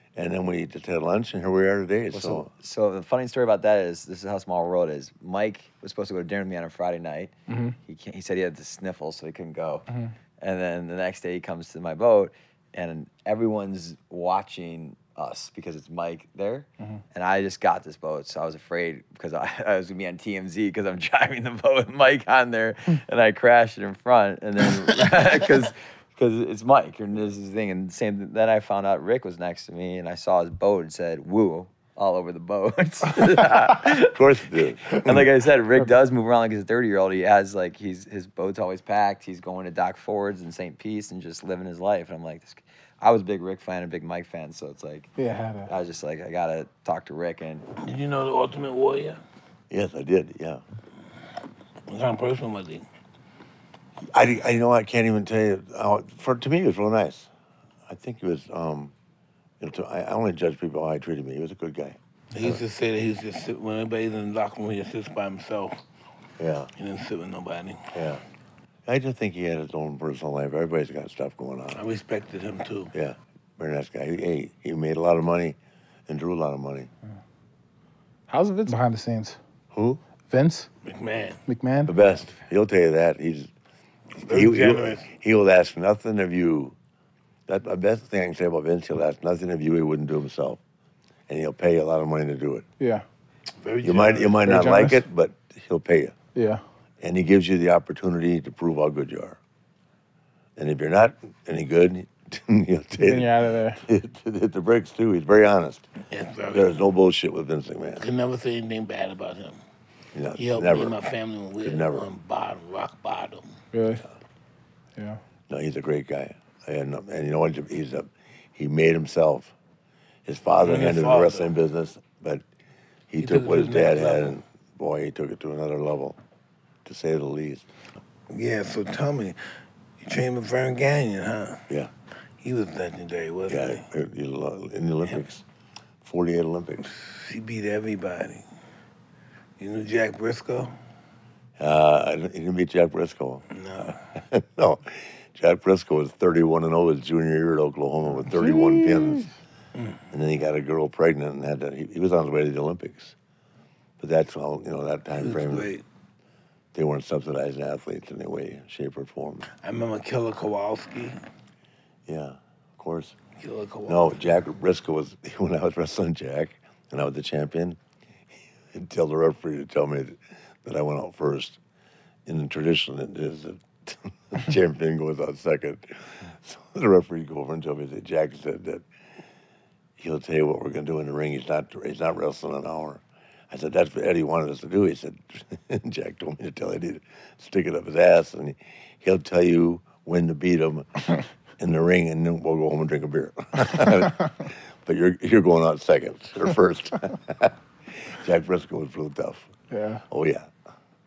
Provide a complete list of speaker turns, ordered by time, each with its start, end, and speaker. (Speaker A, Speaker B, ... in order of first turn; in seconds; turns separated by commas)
Speaker A: 0.2-2.5, Speaker B: 2.1-7.3, Speaker C: 7.5-7.8, Speaker B: 7.9-9.9, Speaker C: 9.9-10.1, Speaker B: 10.4-34.2, Speaker A: 33.9-35.3, Speaker B: 34.9-45.1, Speaker C: 45.2-45.7, Speaker B: 45.7-47.7, Speaker D: 47.8-49.2, Speaker A: 49.7-50.6, Speaker D: 51.9-52.9, Speaker A: 54.1-57.3, Speaker A: 57.9-58.9, Speaker A: 59.6-62.6, Speaker D: 62.3-65.8, Speaker A: 66.4-66.7, Speaker D: 66.7-67.9, Speaker A: 67.9-68.2, Speaker A: 68.9-71.8, Speaker D: 71.7-72.9, Speaker A: 72.9-75.6, Speaker A: 76.1-76.9, Speaker C: 78.3-79.4, Speaker A: 79.7-80.0, Speaker C: 80.3-80.7, Speaker D: 80.8-81.4, Speaker C: 81.5-81.9, Speaker A: 81.9-83.5, Speaker D: 84.2-85.1, Speaker A: 84.2-86.8, Speaker A: 87.5-90.6, Speaker A: 91.3-92.7, Speaker C: 92.8-93.0, Speaker D: 93.6-94.5, Speaker A: 93.8-96.2, Speaker C: 94.4-95.0, Speaker C: 96.3-96.6, Speaker A: 97.0-99.4, Speaker A: 100.6-105.9, Speaker C: 103.0-103.8, Speaker D: 106.1-106.8, Speaker A: 106.5-108.0, Speaker D: 108.0-109.6, Speaker A: 110.1-111.0, Speaker D: 110.3-113.5, Speaker A: 111.6-112.0, Speaker C: 113.7-114.0, Speaker A: 115.5-119.5, Speaker A: 120.3-122.5, Speaker D: 120.6-121.5, Speaker A: 123.1-126.2, Speaker D: 123.2-124.4, Speaker A: 126.8-127.7, Speaker D: 128.3-129.4, Speaker D: 130.0-131.7, Speaker D: 132.4-133.9, Speaker A: 133.5-135.4, Speaker A: 136.0-136.9, Speaker D: 136.8-138.4, Speaker D: 139.6-140.7, Speaker A: 141.6-143.4, Speaker D: 143.5-144.0, Speaker A: 144.1-149.3, Speaker C: 148.5-149.1, Speaker A: 150.1-153.1, Speaker A: 154.0-155.7, Speaker D: 155.2-155.8, Speaker A: 156.7-159.5, Speaker D: 159.6-161.2, Speaker A: 162.1-163.1, Speaker D: 163.4-164.2, Speaker A: 163.9-167.8, Speaker A: 168.7-171.6, Speaker A: 172.3-178.8, Speaker A: 180.0-191.0, Speaker A: 191.6-199.5, Speaker C: 199.7-200.0, Speaker A: 200.1-200.5